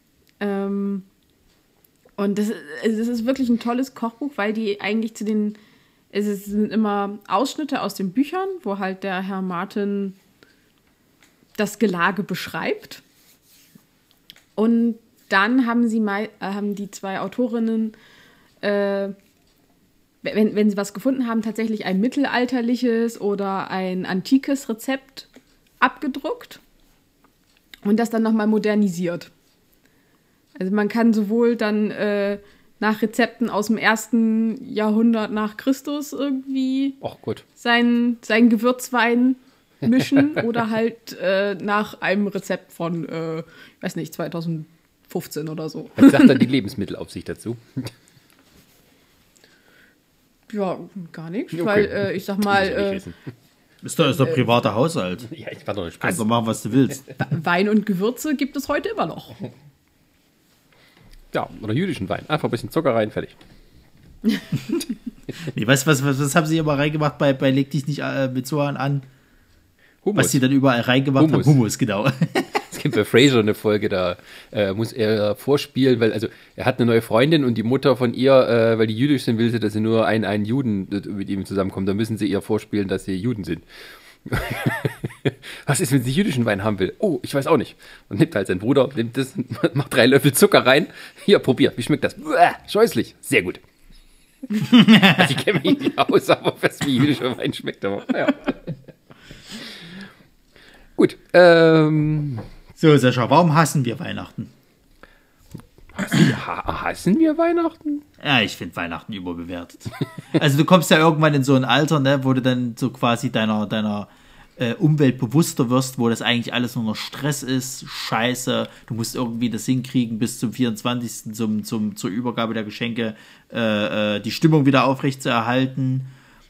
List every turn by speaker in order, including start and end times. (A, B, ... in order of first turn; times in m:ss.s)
0:00.4-0:01.0 A
0:02.2-0:05.6 A
0:06.1-0:10.2 A
0:11.6-0:13.0 A
0:14.6-0:17.9 A
0:18.6-0:19.1 A
0:20.2-0:25.3 A
0:25.8-0:26.6 A
0:27.8-0:29.3 A
0:30.6-0:37.0 A
0:37.0-0:37.4 B
0:37.6-0:46.3 A
0:46.0-0:47.9 B
0:50.5-0:53.0 A
0:51.5-0:53.1 B
0:53.8-0:55.3 C
0:55.2-0:56.2 B
0:56.0-0:57.2 C
0:57.3-0:59.4 A
1:01.3-1:03.4 B
1:05.4-1:09.1 C
1:10.0-1:10.4 B
1:10.2-1:12.6 C
1:11.2-1:11.6 B
1:12.6-1:23.6 B
1:24.2-1:33.6 B
1:34.7-1:35.3 C
1:34.7-1:38.6 B
1:41.0-1:42.4 B
1:42.8-1:44.5 C
1:46.0-1:48.0 B
1:48.2-2:06.1 C